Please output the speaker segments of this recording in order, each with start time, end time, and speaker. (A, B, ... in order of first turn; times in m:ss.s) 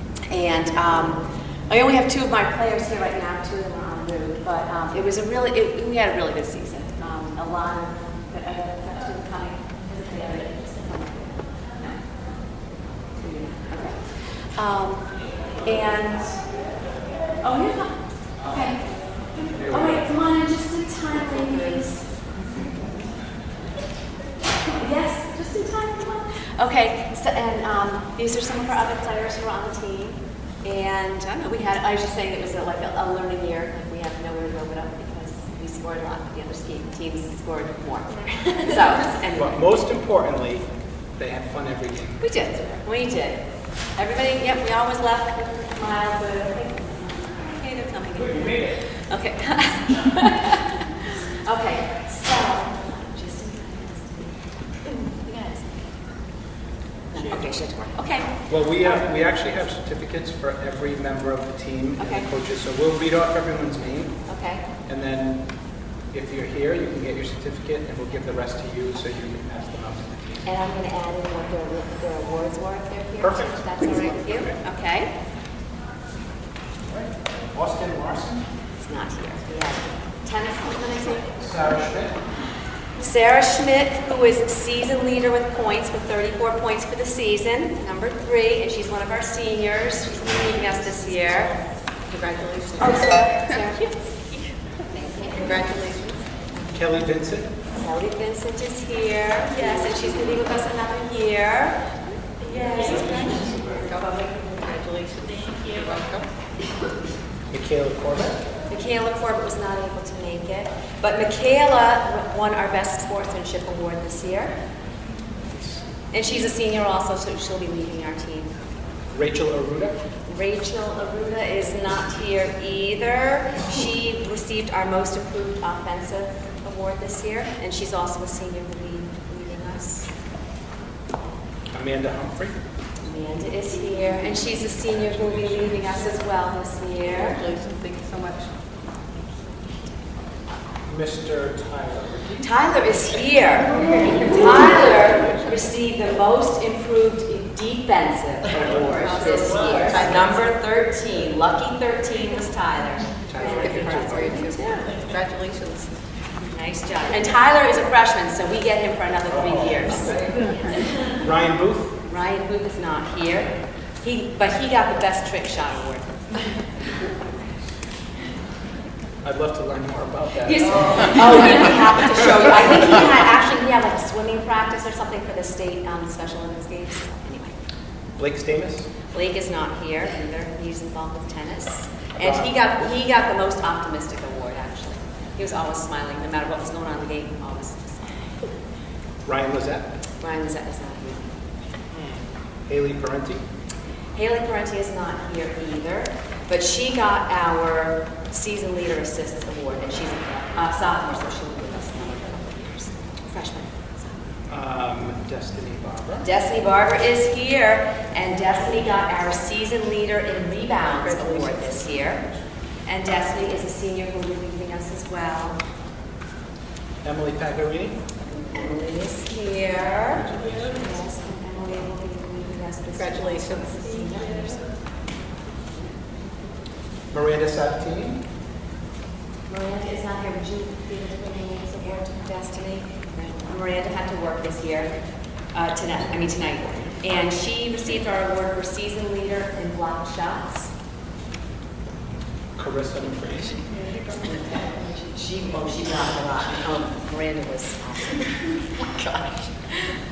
0:00.3-0:12.0 A
0:13.2-0:15.1 A
0:15.6-0:16.4 A
0:17.4-0:18.8 A
0:19.4-0:22.1 A
0:19.5-0:20.0 B
0:24.6-0:39.6 A
0:39.4-0:42.2 B
0:42.2-0:43.4 A
0:44.0-0:56.0 A
0:48.2-0:48.8 B
0:57.1-0:58.3 A
0:58.5-1:04.1 B
1:02.0-1:02.3 A
1:04.3-1:04.6 A
1:04.9-1:05.4 B
1:06.1-1:10.4 B
1:10.4-1:15.1 A
1:13.2-1:14.5 B
1:16.9-1:18.4 B
1:18.8-1:21.4 A
1:21.4-1:22.2 B
1:23.0-1:31.6 A
1:32.1-1:33.6 C
1:32.8-1:34.2 A
1:34.9-1:35.5 A
1:35.2-1:36.2 C
1:36.7-1:37.5 B
1:37.8-1:41.8 A
1:42.4-1:44.3 A
1:42.6-1:46.3 C
1:43.3-1:43.6 B
1:47.5-1:48.4 B
1:48.7-1:54.5 A
1:55.5-1:55.8 B
1:56.1-1:58.5 A
1:59.1-2:00.0 B
2:00.2-2:10.1 A
2:11.7-2:12.6 B
2:13.0-2:17.4 A
2:15.0-2:16.0 B
2:17.2-2:18.5 C
2:20.8-2:22.5 B
2:22.4-2:34.7 A
2:28.6-2:30.2 B
2:29.1-2:29.9 C
2:33.3-2:34.6 B
2:33.4-2:36.0 C
2:36.5-2:40.8 A
2:39.3-2:40.4 B
2:41.1-2:41.9 B
2:42.0-2:46.4 A
2:49.2-2:51.4 B
2:50.4-2:57.6 A
2:58.2-2:58.9 B
2:59.1-3:08.5 A
3:02.2-3:02.6 B
3:09.2-3:09.9 B
3:10.2-3:11.3 A
3:11.9-3:13.4 B
3:14.1-3:24.2 A
3:24.5-3:26.3 B
3:26.2-3:32.3 A
3:30.8-3:31.6 C
3:32.8-3:35.6 A
3:37.0-3:38.0 B
3:38.5-3:44.7 A
3:40.0-3:40.8 B
3:42.9-3:44.6 C
3:47.1-3:48.2 B
3:49.5-3:54.9 A
3:55.5-4:00.7 A
4:02.6-4:03.6 B
4:03.7-4:04.2 C
4:04.2-4:09.9 A